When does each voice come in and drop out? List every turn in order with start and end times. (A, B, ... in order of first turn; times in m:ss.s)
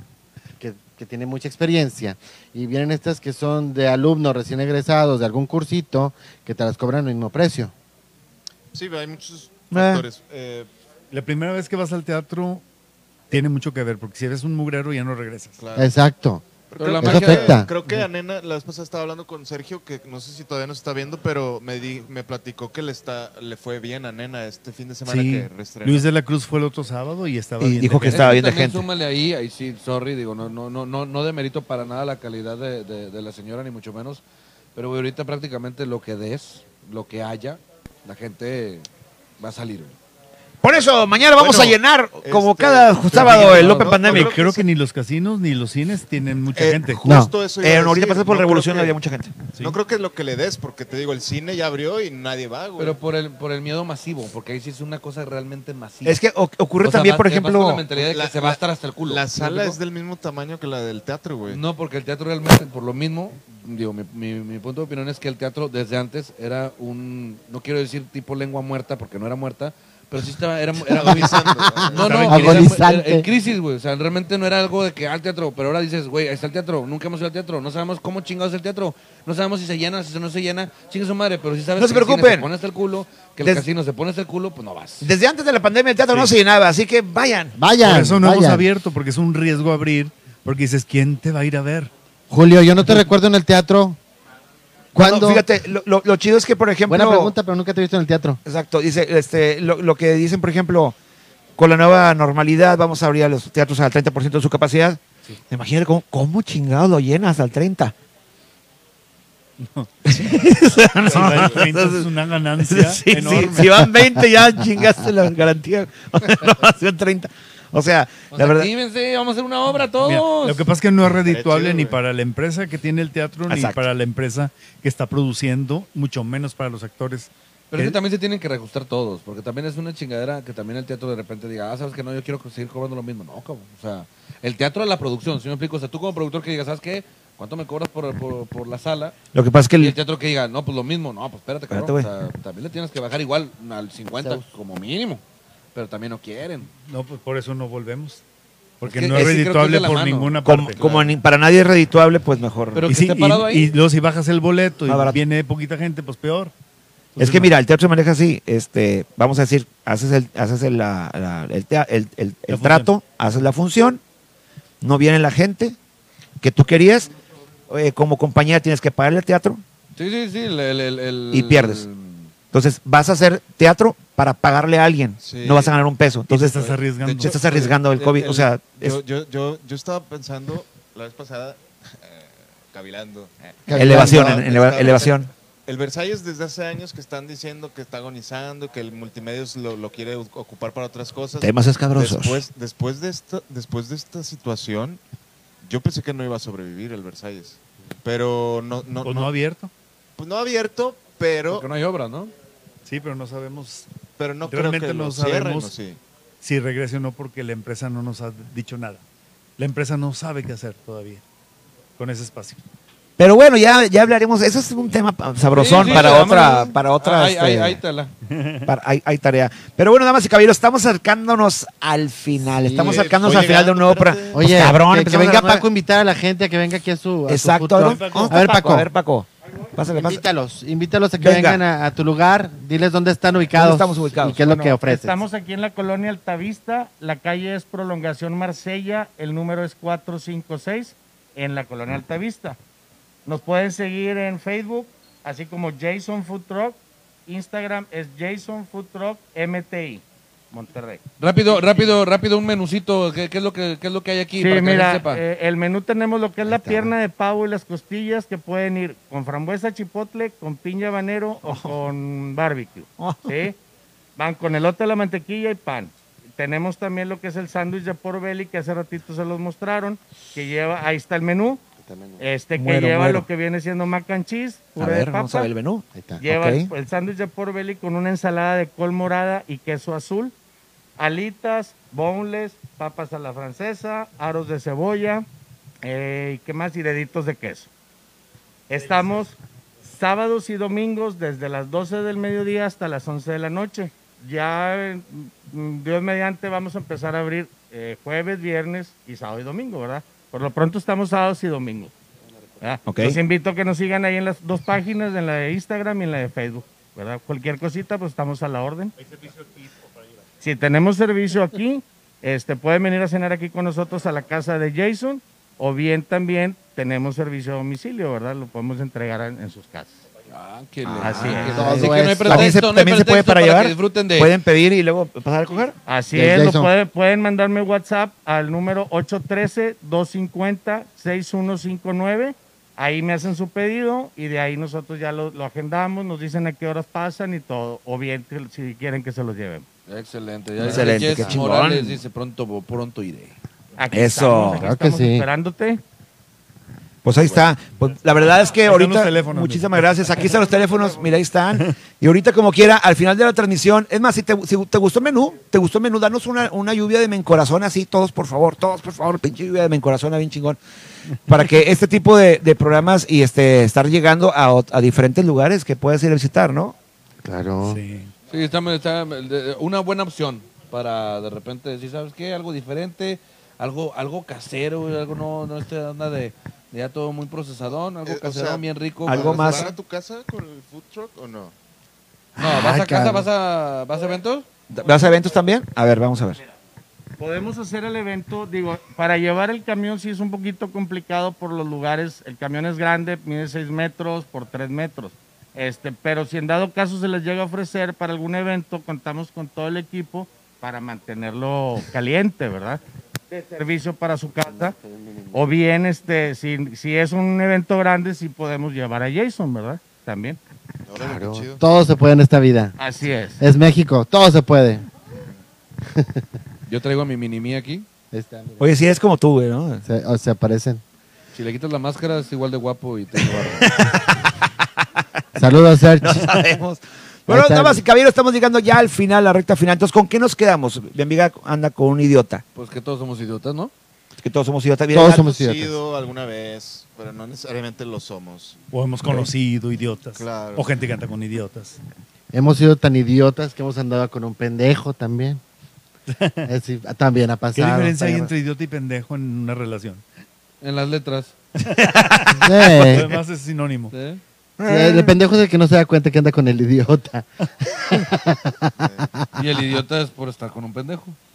0:00.6-0:07.7 A
0:08.7-0:10.7 B
0:09.7-0:10.0 C
0:11.1-0:12.6 D
0:13.3-0:15.6 D
0:15.6-0:15.9 B
0:15.8-0:16.4 A
0:16.7-0:26.1 B
0:16.8-0:17.6 E
0:17.0-0:17.7 A
0:25.0-0:28.4 D
0:27.6-0:28.8 C
0:28.0-0:34.2 E
0:34.8-0:38.9 E
0:39.4-0:40.0 E
0:40.6-0:44.4 C
0:40.7-0:44.6 B
0:43.1-0:43.9 E
0:43.8-0:47.0 D
0:46.6-0:49.0 B
0:47.0-0:47.3 A
0:47.6-0:49.4 C
0:49.6-0:53.0 B
0:52.8-0:56.2 E
0:56.0-0:57.8 C
0:56.8-0:59.8 E
0:57.9-1:01.6 B
1:01.5-1:25.1 E
1:10.9-1:12.6 B
1:10.9-1:13.3 A
1:21.8-1:22.5 C
1:25.0-1:27.6 C
1:26.1-1:26.3 D
1:27.6-1:28.6 A
1:27.8-1:31.9 D
1:32.3-1:34.0 A
1:34.9-1:35.4 A
1:35.0-1:37.3 C
1:36.9-1:38.4 A
1:38.4-1:40.9 C
1:41.6-1:47.9 C
1:49.6-1:53.9 D
1:50.0-1:58.7 C
1:51.2-1:51.4 B
1:58.3-2:00.7 E
2:00.0-2:08.0 D
2:01.2-2:02.0 B
2:03.5-2:03.8 C
2:07.7-2:19.2 E
2:19.3-2:20.0 C
2:19.8-2:25.2 E
2:21.7-2:22.1 C
2:25.7-2:26.7 E
2:26.8-2:28.2 D
2:28.8-2:30.9 D
2:28.8-2:31.0 E
2:30.4-2:32.9 C
2:32.7-2:33.7 E
2:32.9-2:36.5 D
2:34.9-2:35.2 C
2:37.2-2:37.5 D
2:37.2-2:44.0 C
2:42.5-2:42.9 D
2:44.8-2:45.8 C
2:46.4-2:47.1 C
2:47.7-2:49.6 C
2:50.0-2:52.3 E
2:51.3-2:51.8 C
2:52.5-2:59.0 C
2:55.2-2:55.8 B
2:56.3-2:57.4 D
2:56.6-3:15.0 B
3:03.7-3:04.4 A
3:03.7-3:05.3 C
3:11.4-3:12.4 C
3:15.6-3:19.3 B
3:19.0-3:19.7 D
3:20.2-3:21.7 B
3:21.5-3:22.3 E
3:22.8-3:23.9 D
3:24.2-3:26.0 B
3:24.4-3:25.7 D
3:26.4-3:29.0 D
3:29.6-3:31.2 D
3:32.0-3:32.6 D
3:33.2-3:37.8 C
3:35.5-3:38.1 E
3:38.3-3:38.7 D
3:38.6-3:45.6 C
3:42.5-3:43.2 A
3:42.8-3:44.6 B
3:44.3-3:48.9 A
3:47.3-3:50.2 C
3:47.8-3:48.8 D
3:49.9-3:55.2 A
3:51.2-3:51.6 C
3:53.5-3:54.6 C
3:54.4-4:02.6 F
4:03.2-4:11.0 F
4:11.2-4:15.2 E
4:14.4-4:23.6 F
4:16.4-4:16.9 A
4:21.4-4:21.8 C
4:23.0-4:23.4 C
4:24.2-4:31.6 F
4:31.8-4:32.2 A
4:32.2-4:35.5 F
4:32.6-4:33.3 C
4:34.8-4:36.7 C
4:35.9-4:36.2 A
4:36.2-4:40.3 F
4:41.0-4:45.3 F
4:45.8-4:47.7 F
4:48.7-5:01.9 F
5:02.6-5:08.9 F
5:02.9-5:03.2 C
5:10.4-5:20.0 F
5:20.3-5:24.3 E
5:20.8-5:25.8 C
5:21.0-5:21.8 F
5:21.3-5:22.5 A
5:25.8-5:39.6 F
5:26.1-5:26.7 A
5:39.9-5:43.3 E
5:40.6-5:42.0 C
5:40.6-5:41.4 A
5:43.8-5:45.8 F
5:43.9-5:44.6 C
5:44.6-5:45.2 A
5:47.0-6:00.6 C
5:48.6-5:50.2 D
6:01.3-6:06.7 C
6:07.2-6:07.8 A
6:07.6-6:08.1 D
6:08.3-6:19.7 E
6:18.0-6:21.5 B
6:19.0-6:19.7 C
6:22.4-6:23.3 A
6:22.4-6:24.5 E
6:24.7-6:26.4 C
6:27.2-6:44.7 F
6:44.8-6:45.4 A
6:45.3-6:50.4 F
6:50.9-6:51.6 B
6:51.0-6:52.8 A
6:52.8-6:53.4 F
6:53.4-6:54.9 A
6:55.9-6:56.2 A
6:56.7-6:57.8 E
6:58.1-6:58.6 A
6:58.6-6:59.8 C
6:59.8-7:00.8 A
7:01.3-7:03.7 E
7:03.6-7:04.3 C
7:05.4-7:06.4 A
7:06.0-7:12.4 C
7:07.3-7:07.8 A
7:12.5-7:13.7 E
7:14.2-7:15.2 C
7:14.9-7:15.7 A
7:15.2-7:18.6 B
7:18.7-7:21.8 D
7:20.1-7:20.7 B
7:22.3-7:25.4 A
7:26.1-7:26.5 D
7:26.4-7:28.3 A
7:27.5-7:30.0 D
7:30.6-7:31.3 E
7:31.6-7:33.9 D
7:31.8-7:33.0 C
7:32.4-7:33.1 A
7:33.9-7:34.2 E
7:34.6-7:35.2 C
7:34.7-7:39.3 A
7:38.8-7:39.1 B
7:39.3-7:41.2 E